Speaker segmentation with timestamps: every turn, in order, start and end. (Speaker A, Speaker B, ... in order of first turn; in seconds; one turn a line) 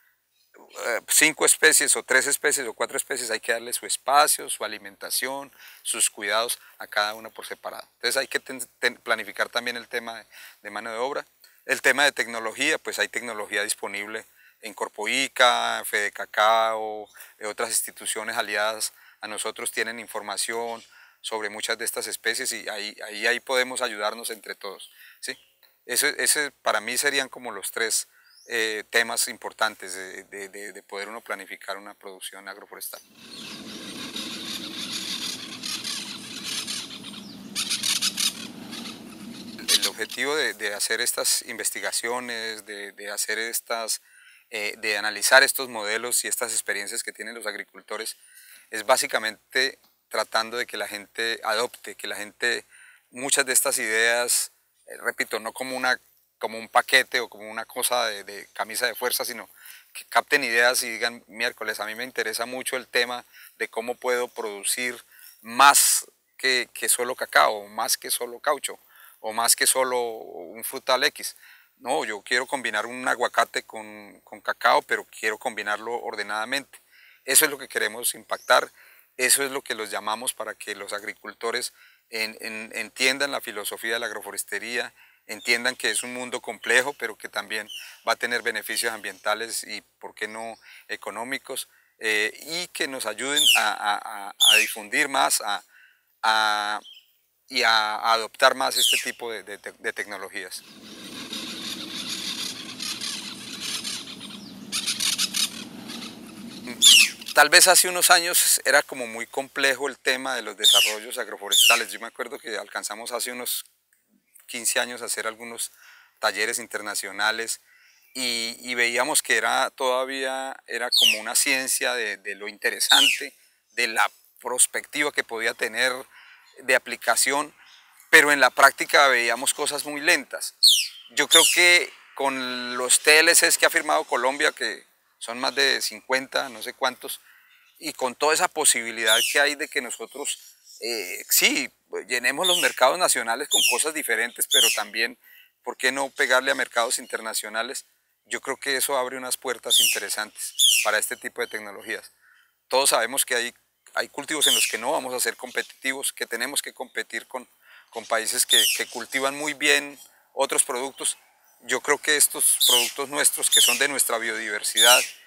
Speaker A: 0.6-33.0
Speaker A: 39.6-48.2
Speaker A: 48.7-95.6
Speaker A: 96.2-96.8
Speaker A: 97.5-100.6
Speaker A: 106.7-113.7
Speaker A: 114.5-117.6
Speaker A: 118.1-127.5
Speaker A: 128.1-137.2
Speaker A: 137.8-152.1
Speaker A: 152.7-165.0